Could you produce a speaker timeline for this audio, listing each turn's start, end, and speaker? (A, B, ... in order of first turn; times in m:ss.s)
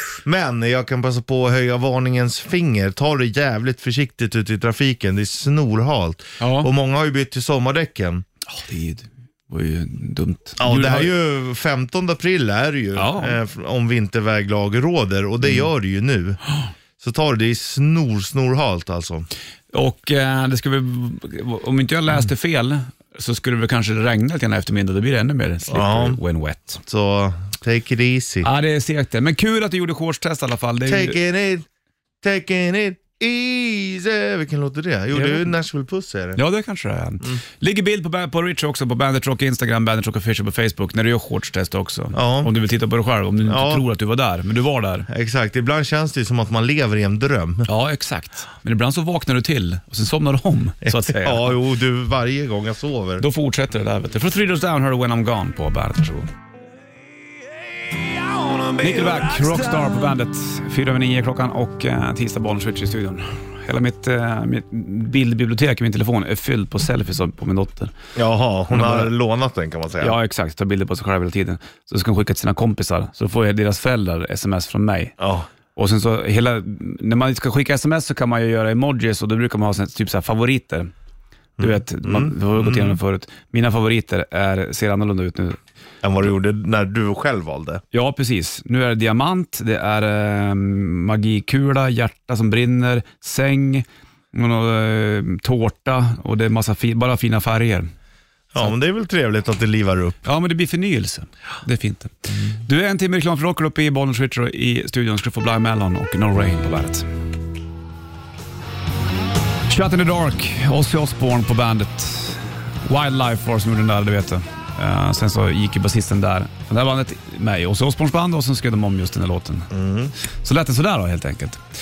0:00.2-0:08.2 A
0:06.4-0:06.7 B
0:08.5-0:11.1 B
0:10.6-0:16.4 A
0:13.0-0:13.4 B
0:17.0-0:19.3 A
0:19.7-0:26.8 B
0:25.7-0:26.2 A
0:26.8-0:28.5 A
0:28.4-0:31.2 B
0:30.9-0:31.6 A
0:32.2-0:36.4 A
0:35.1-0:35.5 B
0:36.4-0:45.1 B
0:42.1-0:42.5 A
0:43.5-0:43.8 A
0:45.1-0:47.7 A
0:47.6-0:51.6 B
0:50.8-0:53.2 A
0:53.2-0:56.3 B
0:58.3-0:59.6 A
0:58.7-1:07.9 B
1:08.1-1:10.1 A
1:08.7-1:09.1 B
1:10.0-1:15.2 B
1:15.2-1:15.5 A
1:15.8-1:20.9 B
1:21.6-1:23.0 A
1:21.6-1:25.6 B
1:26.0-1:27.8 A
1:27.9-1:37.9 B
1:38.5-1:40.2 A
1:40.2-1:47.1 B
1:49.7-1:59.7 B
1:59.7-2:00.1 A
2:00.4-2:01.6 B